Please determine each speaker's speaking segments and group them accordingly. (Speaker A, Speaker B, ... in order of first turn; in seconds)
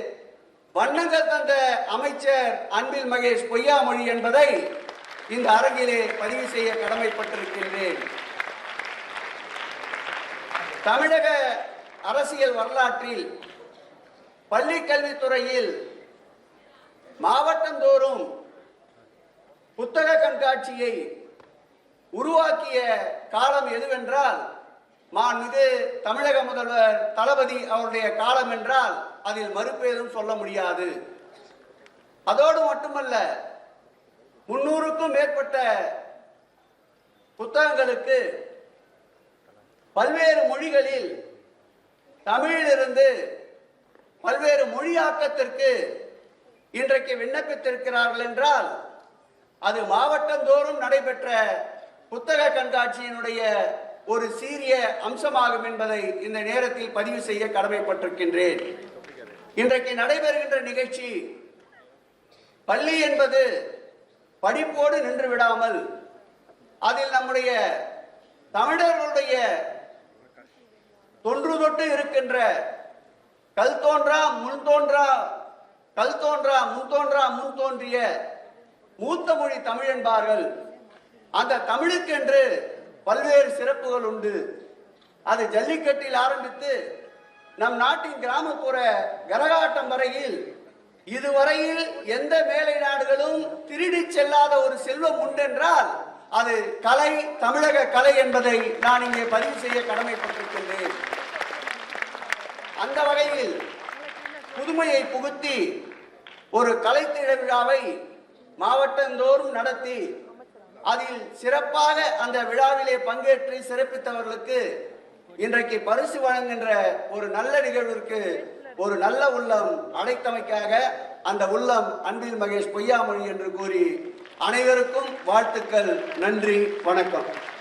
Speaker A: 0.8-4.5, 5.3-8.0, 10.8-11.3, 12.1-13.2, 14.5-15.7, 17.2-18.2, 19.8-20.9, 22.1-24.4, 25.1-30.9, 32.3-33.2, 34.5-35.6, 37.4-38.2, 40.0-41.1, 42.3-43.1, 44.2-45.7, 46.8-48.7, 49.6-51.3, 52.1-53.4, 54.1-58.6, 59.6-61.1, 62.7-63.4, 64.4-65.8, 66.9-67.5, 68.5-69.4, 71.2-72.4, 73.6-75.1, 76.0-78.0, 79.0-80.4, 81.4-82.4, 83.0-84.3, 85.3-86.7, 87.6-90.3, 91.1-100.8, 102.8-103.5, 104.5-105.6, 106.5-107.8, 108.6-110.0, 110.9-114.6, 115.4-118.2, 118.8-123.9, 124.5-127.3